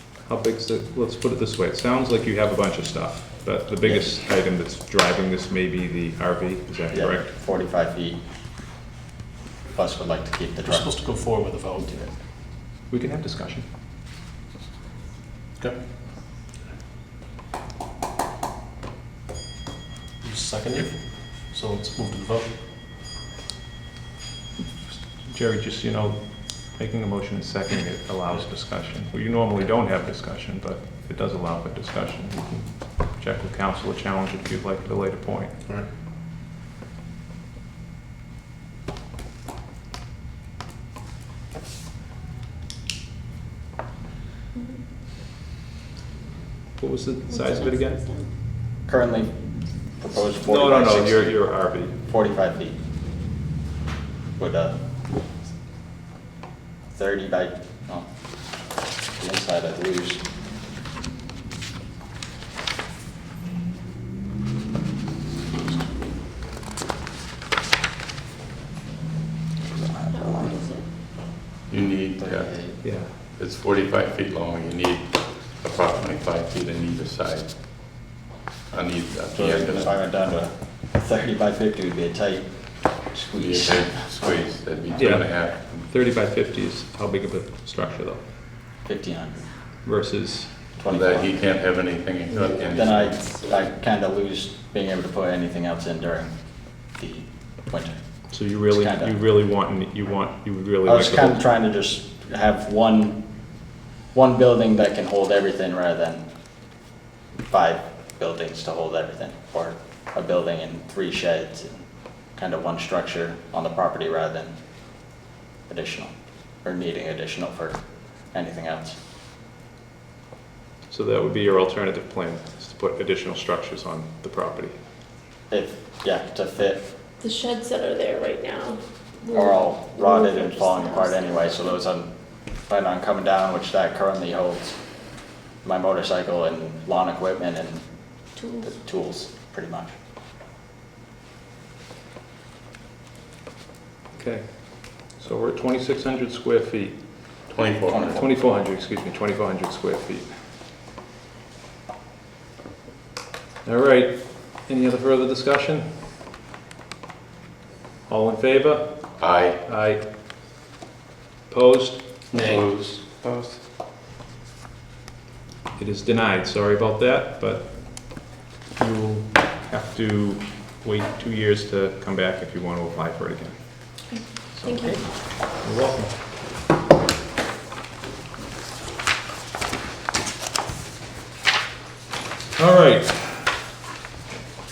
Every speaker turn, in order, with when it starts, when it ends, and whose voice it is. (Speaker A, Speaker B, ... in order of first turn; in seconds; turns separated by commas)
Speaker A: 0.3-7.3, Speaker B: 6.9-8.2, Speaker B: 9.7-10.9, Speaker C: 10.6-12.1, Speaker A: 12.9-13.7, Speaker C: 20.2-22.5, Speaker A: 24.9-35.5, Speaker A: 46.8-48.1, Speaker D: 47.3-48.3, Speaker B: 48.9-49.4, Speaker B: 49.9-51.5, Speaker A: 50.3-52.0, Speaker B: 52.1-52.8, Speaker B: 54.4-54.8, Speaker B: 56.9-58.1, Speaker B: 59.2-60.2, Speaker B: 69.8-70.6, Speaker D: 70.1-70.8, Speaker E: 71.7-78.0, Speaker B: 72.2-72.8, Speaker A: 72.8-73.1, Speaker E: 78.7-79.9, Speaker B: 79.3-83.9, Speaker E: 83.4-85.9, Speaker A: 84.9-88.2, Speaker B: 88.8-89.4, Speaker A: 89.9-90.7, Speaker B: 90.8-91.4, Speaker E: 90.9-93.2, Speaker D: 92.3-92.6, Speaker B: 92.7-96.3, Speaker B: 96.9-98.0, Speaker A: 98.3-101.5, Speaker B: 98.7-99.1, Speaker B: 100.8-103.2, Speaker B: 104.1-106.2, Speaker B: 107.5-114.6, Speaker B: 115.7-119.0, Speaker A: 120.9-124.8, Speaker B: 125.5-126.8, Speaker D: 127.2-131.8, Speaker B: 129.3-132.1, Speaker B: 132.6-134.8, Speaker B: 135.6-137.8, Speaker D: 138.4-138.7, Speaker B: 138.6-139.9, Speaker A: 144.2-147.0, Speaker E: 147.5-148.2, Speaker B: 147.9-148.2, Speaker A: 148.1-150.3, Speaker A: 153.7-155.8, Speaker A: 158.1-160.0, Speaker E: 159.2-159.6, Speaker A: 161.5-162.1, Speaker C: 162.3-162.7, Speaker E: 162.3-163.6, Speaker A: 165.8-173.6, Speaker D: 174.1-175.0, Speaker B: 174.7-175.0, Speaker A: 175.5-176.2, Speaker A: 182.6-183.6